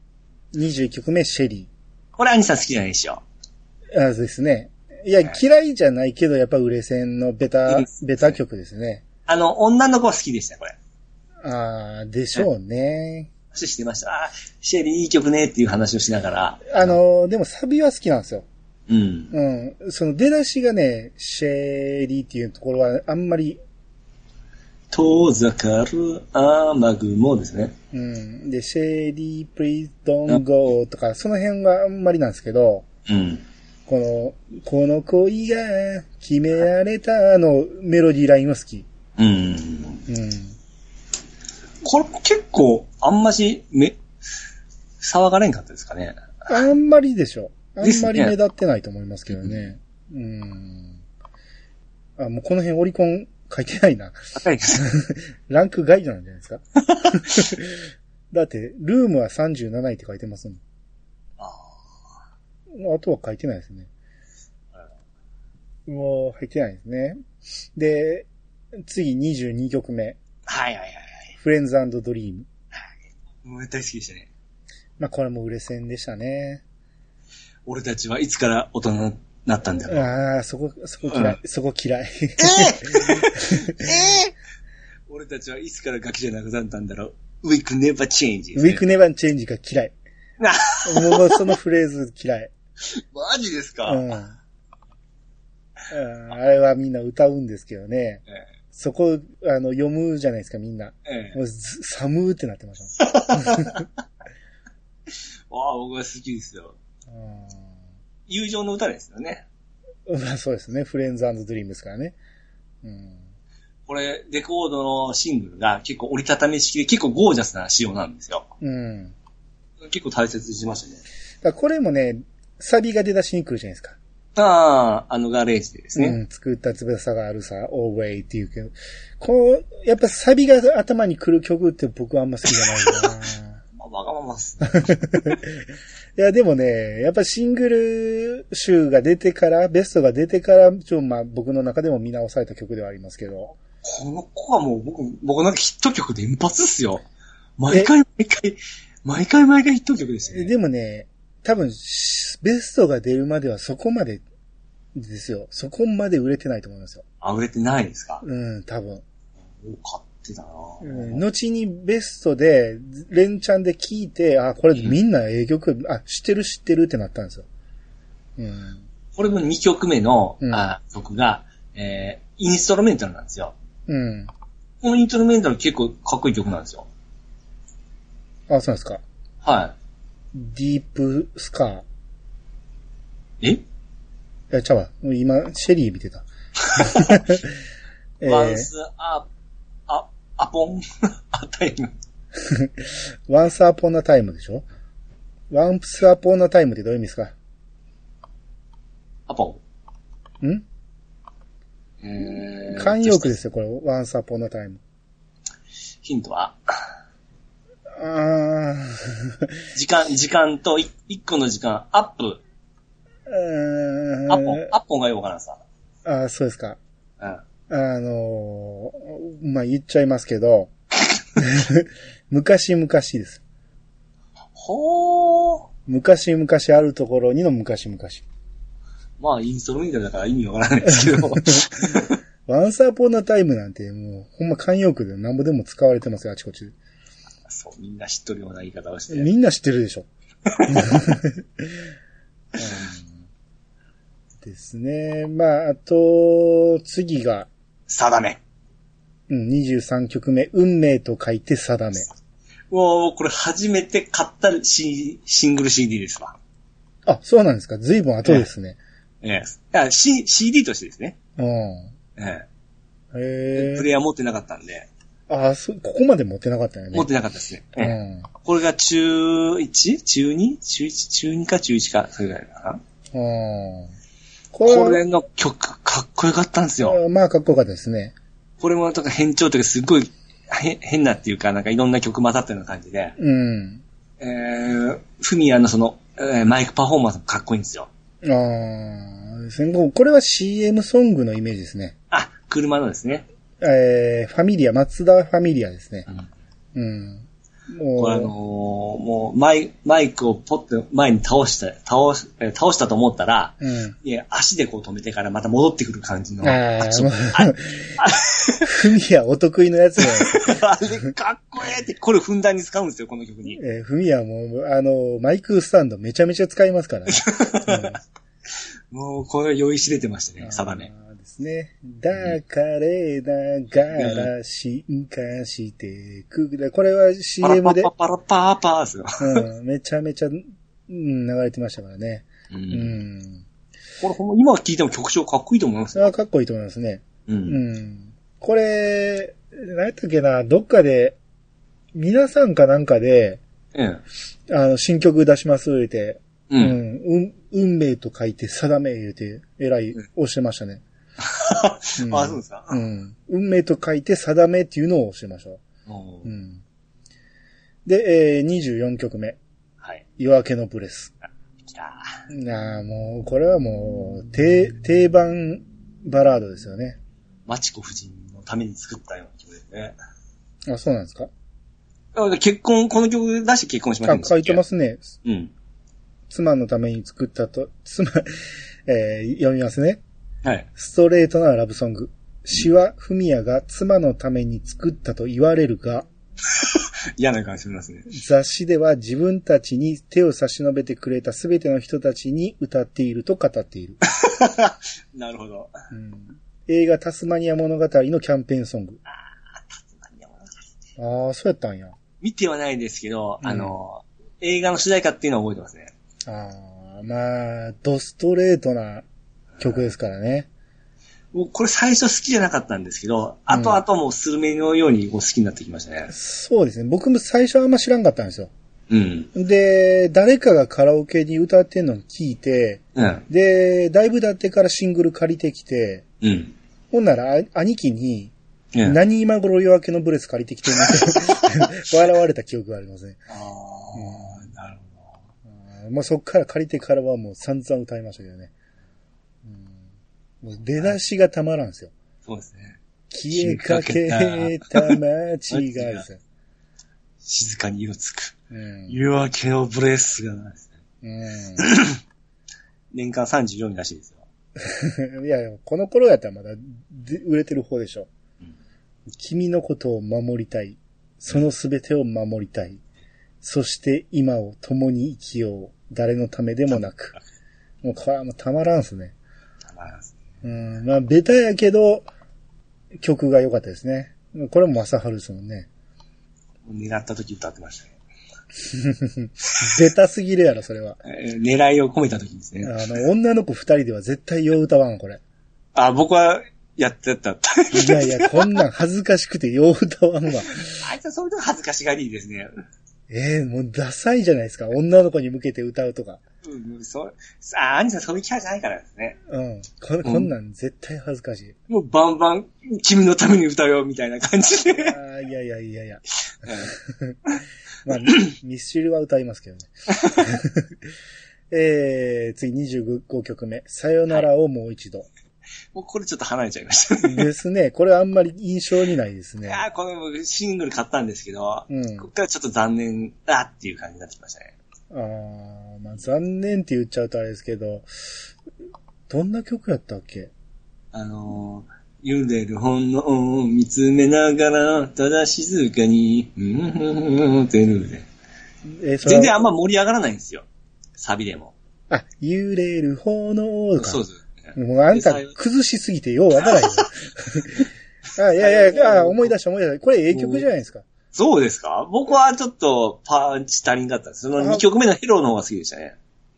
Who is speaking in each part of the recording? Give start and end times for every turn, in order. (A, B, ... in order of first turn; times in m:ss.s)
0:00.5-0:01.7 A
0:02.2-0:03.2 B
0:03.9-0:09.0 A
0:09.3-0:10.8 B
0:11.4-0:13.3 A
0:13.5-0:17.0 B
0:16.7-0:18.5 A
0:18.9-0:19.3 B
0:19.3-0:23.6 A
0:24.9-0:27.7 B
0:27.9-0:32.9 A
0:33.1-0:33.4 B
0:33.9-0:38.9 A
0:39.2-0:40.0 B
0:40.1-0:40.6 A
0:41.8-0:44.0 B
0:45.0-0:46.2 B
0:46.5-0:51.0 A
0:47.8-0:48.4 B
0:49.4-0:49.7 B
0:52.2-1:00.6 A
0:54.4-0:54.8 B
1:01.4-1:02.2 B
1:02.7-1:03.9 A
1:05.9-1:07.2 A
1:07.8-1:08.3 A
1:08.8-1:10.2 A
1:10.5-1:11.3 B
1:11.4-1:12.5 A
1:13.4-1:14.3 B
1:15.0-1:16.6 A
1:17.7-1:20.1 B
1:19.9-1:24.2 A
1:21.1-1:21.4 B
1:22.4-1:24.4 B
1:25.1-1:28.8 B
1:28.6-1:30.0 A
1:30.4-1:31.4 B
1:30.8-1:32.5 A
1:32.8-1:34.1 B
1:33.9-1:34.4 A
1:35.9-1:43.8 A
1:41.1-1:41.4 B
1:43.0-1:43.8 B
1:45.1-1:46.8 B
1:47.1-1:47.8 A
1:48.3-1:49.4 B
1:50.1-1:52.2 A
1:52.8-1:53.2 A
1:53.9-1:58.5 B
1:58.6-1:59.2 A
1:59.8-2:01.0 B
2:01.4-2:04.0 A
2:04.4-2:06.2 B
2:06.0-2:13.6 A
2:12.9-2:13.1 B
2:13.8-2:15.0 B
2:14.7-2:15.6 A
2:16.2-2:23.6 A
2:23.8-2:27.1 B
2:27.6-2:30.5 B
2:30.3-2:34.2 A
2:35.0-2:37.0 A
2:37.2-2:38.2 B
2:38.2-2:39.0 A
2:39.6-2:41.2 B
2:40.8-2:47.5 A
2:48.4-2:48.8 A
2:49.2-2:53.5 B
2:50.4-2:50.7 A
2:53.9-2:54.3 A
2:54.8-2:56.9 B
2:58.5-2:59.0 A
2:59.4-2:59.8 B
3:00.3-3:01.8 A
3:04.5-3:07.6 A
3:06.7-3:07.2 B
3:08.2-3:08.7 A
3:08.2-3:09.3 B
3:09.9-3:11.9 B
3:12.4-3:14.7 A
3:15.5-3:17.3 A
3:19.3-3:19.6 B
3:22.0-3:23.4 B
3:22.7-3:24.8 A
3:26.0-3:26.6 B
3:28.0-3:29.5 A
3:29.8-3:32.4 B
3:33.3-3:34.7 A
3:34.3-3:35.6 B
3:36.0-3:36.8 A
3:37.7-3:40.7 A
3:41.4-3:43.4 A
3:44.6-3:45.7 B
3:45.9-3:48.2 A
3:49.2-3:52.2 B
3:50.9-3:51.8 A
3:52.5-3:56.8 A
3:57.4-3:59.3 B
3:59.1-4:00.1 A
4:00.5-4:01.0 B
4:00.7-4:01.8 A
4:02.6-4:03.2 A
4:04.4-4:07.5 A
4:07.9-4:08.4 B
4:09.3-4:12.1 A
4:12.7-4:16.4 B
4:17.1-4:18.8 A
4:19.2-4:21.2 B
4:21.4-4:21.9 A
4:22.2-4:22.5 B
4:23.1-4:23.9 A
4:23.6-4:24.9 B
4:25.3-4:27.1 A
4:26.9-4:32.8 B
4:27.8-4:28.3 A
4:33.1-4:33.9 A
4:34.5-4:35.0 A
4:34.6-4:37.0 B
4:36.8-4:38.1 A
4:38.6-4:43.2 B
4:43.2-4:43.8 A
4:44.2-4:47.9 B
4:48.2-4:51.9 A
4:52.1-4:53.2 B
4:53.6-4:56.1 A
4:56.8-4:58.3 A
4:58.0-5:08.7 B
5:03.6-5:04.0 A
5:06.4-5:08.0 A
5:08.6-5:11.1 A
5:10.0-5:13.6 B
5:13.5-5:18.0 A
5:17.1-5:18.0 B
5:18.9-5:20.9 B
5:20.4-5:27.9 A
5:24.0-5:24.3 B
5:27.4-5:29.4 B
5:29.2-5:33.4 A
5:32.5-5:33.0 B
5:34.0-5:36.1 B
5:36.0-5:41.2 A
5:37.3-5:37.6 B
5:41.9-5:43.4 A
5:43.7-5:44.0 B
5:44.5-5:50.8 A
5:46.5-5:46.8 B
5:51.2-5:52.8 B
5:52.0-5:55.6 A
5:55.9-5:56.3 B
5:56.2-5:56.6 A
5:57.9-5:59.4 A
6:00.2-6:01.1 A
6:01.7-6:02.1 B
6:02.3-6:07.0 A
6:07.5-6:10.0 B
6:10.7-6:11.3 A
6:12.2-6:14.6 B
6:14.1-6:15.1 A
6:15.2-6:15.5 B
6:16.3-6:18.3 A
6:18.9-6:20.0 A
6:20.8-6:26.1 A
6:26.5-6:28.1 B
6:28.1-6:34.0 A
6:34.1-6:35.7 B
6:35.9-6:39.0 A
6:39.1-6:40.8 B
6:41.0-6:41.9 A
6:42.2-6:45.9 B
6:43.4-6:43.8 A
6:46.3-6:49.1 A
6:49.6-6:50.5 A
6:51.3-6:56.1 B
6:53.5-6:53.8 A
6:56.1-6:58.5 A
6:58.9-6:59.3 B
6:59.3-7:06.0 A
7:03.0-7:03.2 B
7:06.2-7:06.5 B
7:06.9-7:08.3 A
7:08.8-7:13.2 A
7:10.8-7:11.7 B
7:13.3-7:15.1 B
7:14.0-7:14.4 A
7:15.6-7:18.5 A
7:19.4-7:19.8 A
7:20.4-7:21.9 A
7:22.2-7:22.8 B
7:23.1-7:26.2 A
7:23.3-7:25.0 B
7:25.5-7:26.0 B
7:27.2-7:28.3 B
7:28.5-7:29.0 A
7:28.9-7:30.7 B
7:31.0-7:31.7 A
7:31.6-7:32.0 B
7:32.9-7:34.2 B
7:34.6-7:38.1 A
7:39.2-7:42.8 A
7:43.4-7:47.2 A
7:47.8-7:49.1 A
7:49.7-7:50.2 B
7:50.4-7:52.1 A
7:53.0-7:55.7 A
7:56.6-7:58.0 B
7:58.6-8:01.0 A
8:01.0-8:02.8 B
8:02.6-8:05.2 A
8:05.8-8:08.6 B
8:07.7-8:10.9 A
8:10.5-8:12.5 B
8:13.1-8:16.2 A
8:16.4-8:19.2 B
8:19.3-8:21.6 A
8:20.0-8:20.3 B
8:21.7-8:25.0 B
8:24.7-8:27.2 A
8:26.4-8:26.7 B
8:27.8-8:30.8 A
8:31.5-8:35.1 A
8:35.7-8:37.3 B
8:37.0-8:39.6 A
8:39.5-8:44.5 B
8:41.7-8:42.1 A
8:44.9-8:47.9 A
8:49.1-8:50.3 A
8:50.9-8:58.1 B
8:58.7-8:59.4 A
8:59.0-9:00.5 B
9:01.0-9:01.5 B
9:01.9-9:04.0 A
9:03.8-9:04.3 B
9:04.6-9:10.9 A
9:04.9-9:05.3 B
9:06.4-9:06.8 B
9:08.4-9:09.3 B
9:10.1-9:10.5 B
9:11.1-9:16.0 B
9:14.4-9:14.6 A